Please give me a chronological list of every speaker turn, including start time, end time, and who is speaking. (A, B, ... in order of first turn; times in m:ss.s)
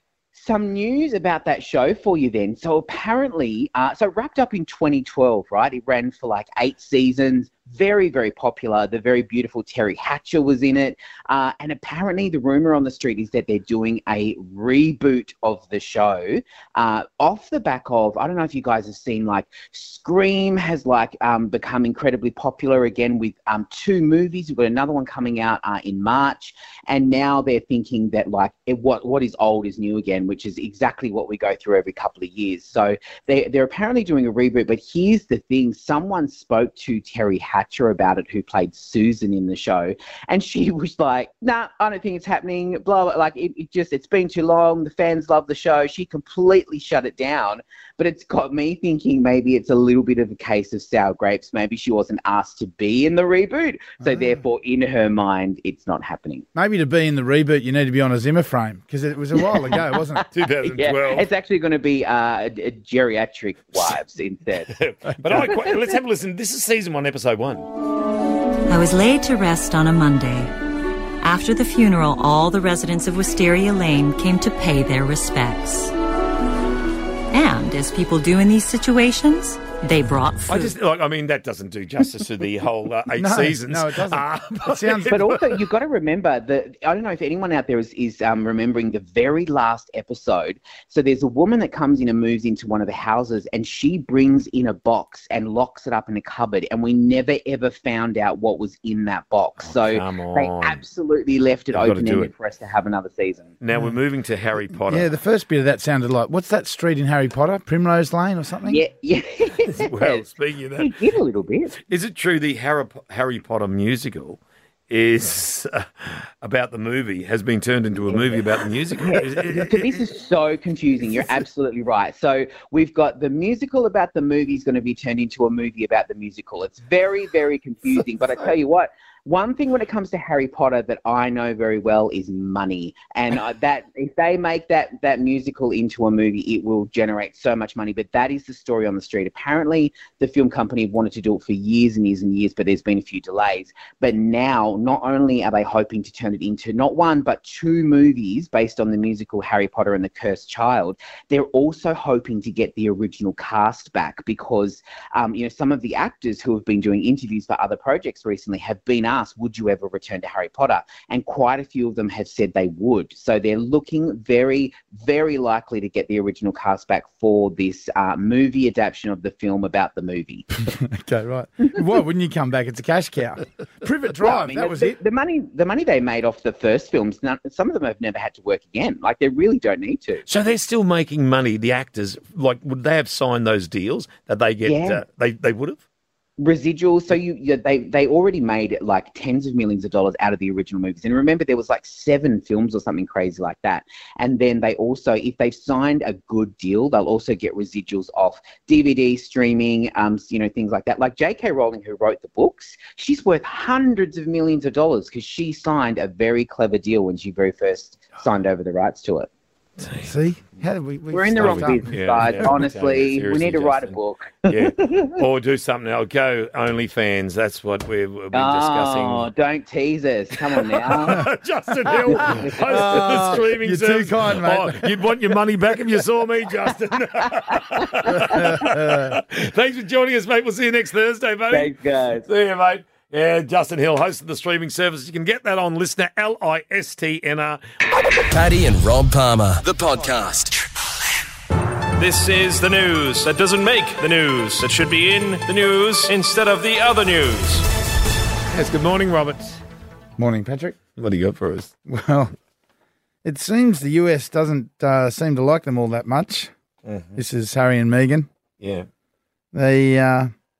0:00.3-0:56.4 A
0:56.5-1:00.2 B
0:59.6-1:04.7 A
1:00.3-1:01.3 C
1:04.7-1:07.7 C
1:05.3-1:05.7 A
1:08.7-1:10.5 D
1:11.2-1:15.9 D
1:17.3-1:20.7 D
1:20.5-1:25.6 C
1:23.1-1:25.2 B
1:25.1-1:43.5 A
1:39.6-1:40.8 C
1:41.7-1:42.3 C
1:43.6-1:45.1 C
1:44.9-1:48.8 B
1:48.6-1:50.2 A
1:49.7-1:50.9 C
1:50.8-1:51.8 A
1:51.9-1:54.4 C
1:54.9-2:00.0 C
1:58.1-1:58.5 A
1:59.0-2:50.5 A
2:50.6-2:55.0 B
2:54.2-3:00.2 A
3:00.3-3:05.8 C
3:04.6-3:05.0 A
3:06.4-3:29.3 A
3:29.8-3:30.1 C
3:30.0-3:31.9 B
3:31.1-3:35.2 A
3:31.4-3:39.3 C
3:38.3-3:41.3 A
3:40.5-3:57.6 C
3:42.1-3:43.3 A
3:42.1-3:45.1 B
3:47.2-3:48.6 A
3:48.2-3:49.2 B
3:51.5-3:52.2 A
3:58.3-4:00.6 E
4:02.0-4:07.6 F
4:08.5-4:09.6 C
4:10.2-4:10.8 B
4:11.0-4:11.7 C
4:11.8-4:12.3 B
4:13.2-4:16.5 B
4:16.8-4:17.2 C
4:17.1-4:18.3 B
4:18.6-4:18.9 C
4:19.5-4:20.3 B